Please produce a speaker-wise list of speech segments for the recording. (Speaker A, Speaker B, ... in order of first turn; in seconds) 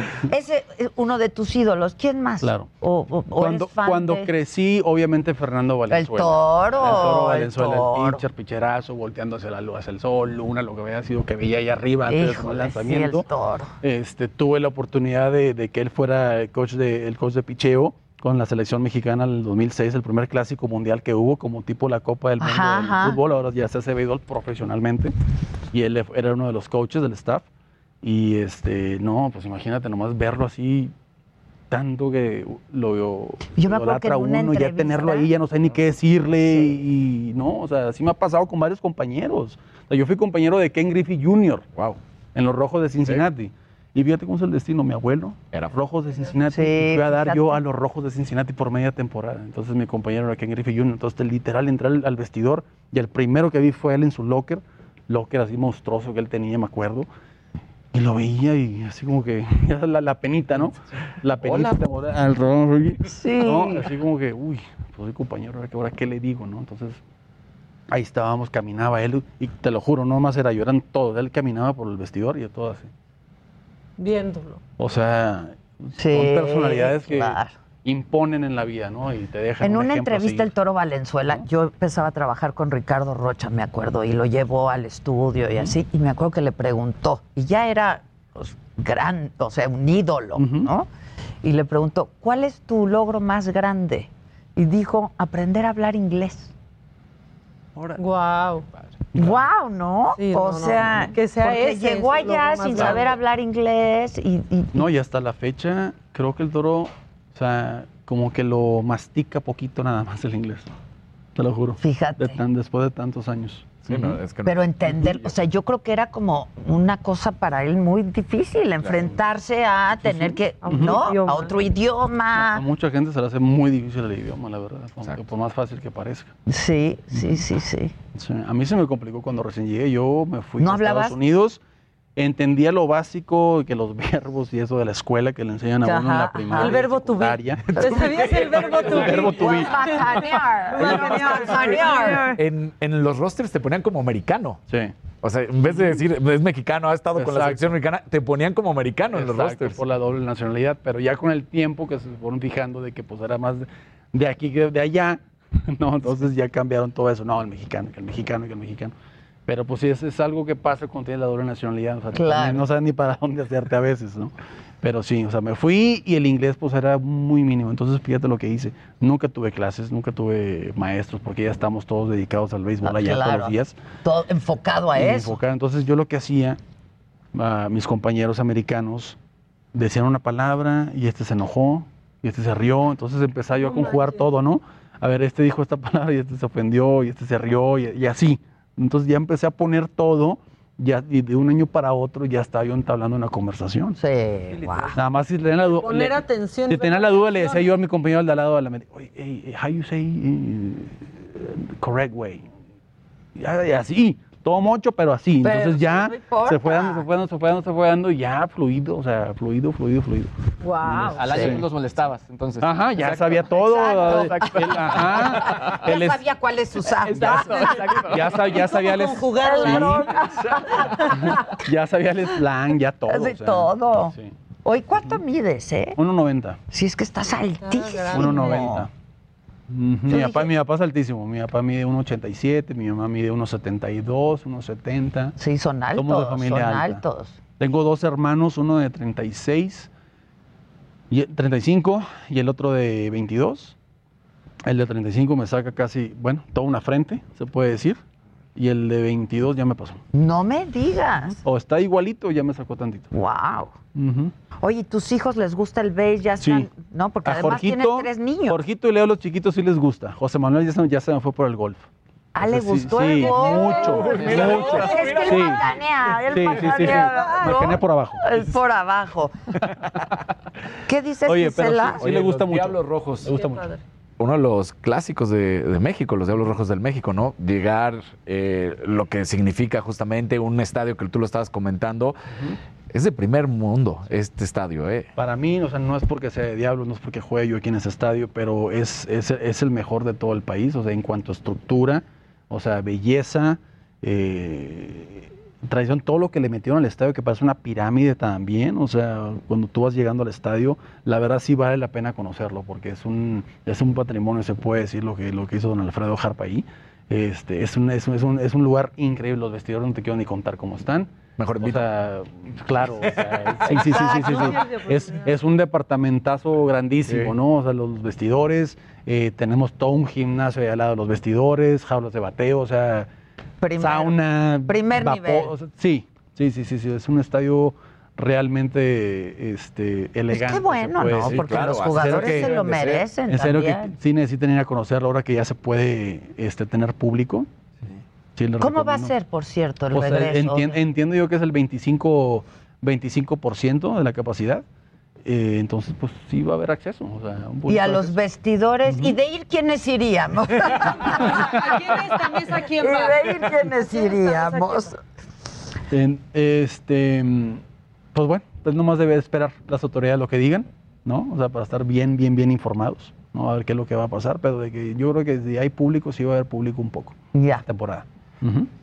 Speaker A: 0.3-4.3, 5.9-8.2, 12.1-13.7, 22.4-23.2, 33.5-35.3, 46.5-47.6, 63.1-63.9, 76.0-77.5, 79.6-90.9, 91.4-96.5, 99.2-104.8, 111.8-112.4, 114.4-122.6, 126.5-127.9, 130.6-131.2, 135.8-136.8, 139.2-142.4, 162.1-162.6, 172.8-175.4, 194.0-195.0, 205.4-207.1, 211.2-211.6, 213.6-214.7, 215.5-218.0, 219.3-221.4, 223.1-224.1, 224.6-226.0, 226.7-228.9, 230.1-230.5, 235.4-237.4, 250.1-251.4, 253.1-253.7, 254.6-258.6, 262.3-269.3, 270.9-272.1, 313.7-314.6, 323.6-324.1, 324.7-325.5, 330.3-333.9, 338.6-340.8, 347.7-355.0, 367.3-367.6
Speaker B: 2.4-2.7, 3.4-13.3, 13.8-25.1, 25.7-27.4, 28.0-30.9, 31.7-41.6, 42.3-57.1, 57.9-67.0, 67.9-72.9, 74.8-80.5, 90.4-90.7, 99.1-99.5, 104.7-110.7, 111.3-114.2, 120.0-121.0, 122.3-126.3, 127.1-127.4, 128.1-131.6, 132.2-140.0, 140.8-141.5, 144.7-144.9, 145.6-146.0, 147.1-147.7, 149.1-158.9, 159.4-173.8, 174.9-176.6, 177.3-179.2, 179.7-194.0, 194.9-202.4, 203.3-210.3, 210.8-211.6, 212.6-216.2, 218.1-224.3, 226.0-226.6, 228.1-228.9, 229.7-235.3, 235.9-237.0, 237.6-239.9, 241.1-243.7, 244.7-248.0, 248.6-250.0, 251.4-253.1, 253.9-254.3, 256.4-256.7, 257.2-261.8, 262.4-268.4, 271.2-273.6, 285.1-323.1, 323.8-337.5, 338.4-339.1, 339.9-344.6, 345.2-348.1, 348.9-349.1, 355.9-357.6, 358.1-368.7
Speaker C: 61.4-61.7, 113.8-115.3, 137.8-139.1, 142.2-144.6, 145.2-149.8, 263.9-265.6, 271.9-273.4, 274.2-282.1, 282.9-285.1, 311.4-311.8, 317.1-317.3, 331.1-333.1
Speaker D: 74.0-74.6, 98.0-98.6, 100.2-103.2, 120.6-121.5, 136.6-142.3, 183.5-184.3, 195.6-197.7, 210.6-211.4, 218.6-220.2, 227.6-228.7, 263.1-264.0, 266.6-267.7, 273.2-273.8, 314.1-315.3, 351.0-354.9
Speaker E: 211.1-215.7, 217.0-218.5